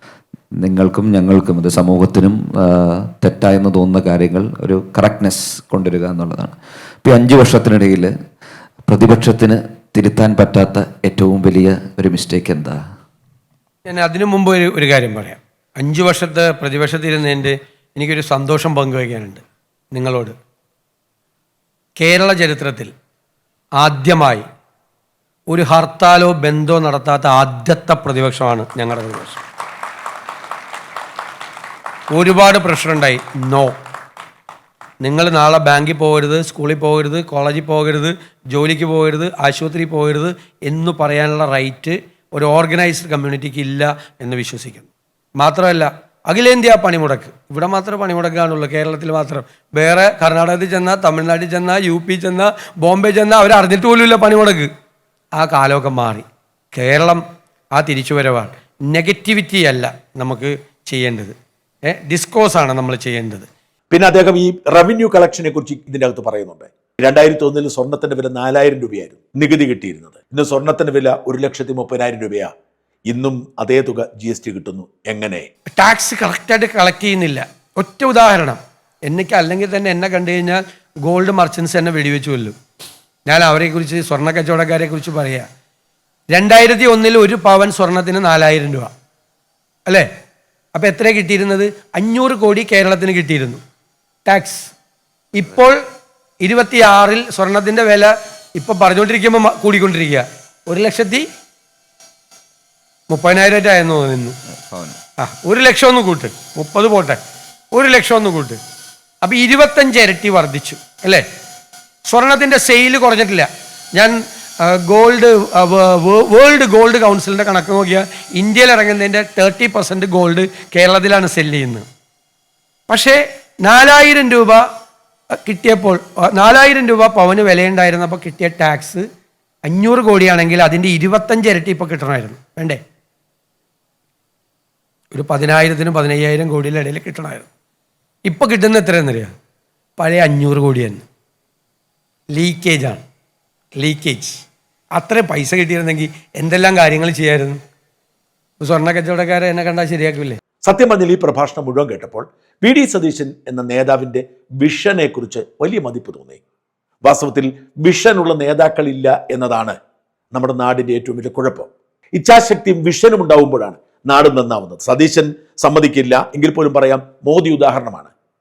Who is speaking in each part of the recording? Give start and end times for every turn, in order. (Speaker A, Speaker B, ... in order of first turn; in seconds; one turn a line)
Speaker A: 0.6-8.1
Speaker A: 8.9-12.8
Speaker B: 13.9-19.4
Speaker B: 19.9-20.4
Speaker B: 22.0-22.9
Speaker B: 23.8-24.4
Speaker B: 25.5-29.4
Speaker B: 32.1-33.8
Speaker B: 35.0-44.9
Speaker B: 45.4-54.7
Speaker B: 55.4-57.2
Speaker B: 57.8-61.3
Speaker B: 61.9-63.5
Speaker C: 63.9-72.5
Speaker C: 73.1-75.5
Speaker B: 75.8-82.5
Speaker B: 83.3-85.5
Speaker B: 86.3-88.9
Speaker B: 90.8-93.6
Speaker B: 94.3-94.7
Speaker B: 95.3-95.8
Speaker B: 96.4-101.3
Speaker B: 103.1-104.4
Speaker A: 104.7-105.0
Speaker B: 105.2-107.2
Speaker B: 107.7-108.6
Speaker B: 109.2-111.2
Speaker B: 112.1-121.9
Speaker B: 122.9-124.6
Speaker B: 125.4-129.1
Speaker B: 129.7-132.8
Speaker B: 135.1-137.5
Speaker B: 138.3-139.3
Speaker B: 140.0-141.0
Speaker B: 142.4-143.0
Speaker B: 143.8-144.4
Speaker B: 145.0-147.6
Speaker B: 148.6-150.4
Speaker C: 150.7-156.4
Speaker C: 157.1-159.8
Speaker C: 160.3-168.1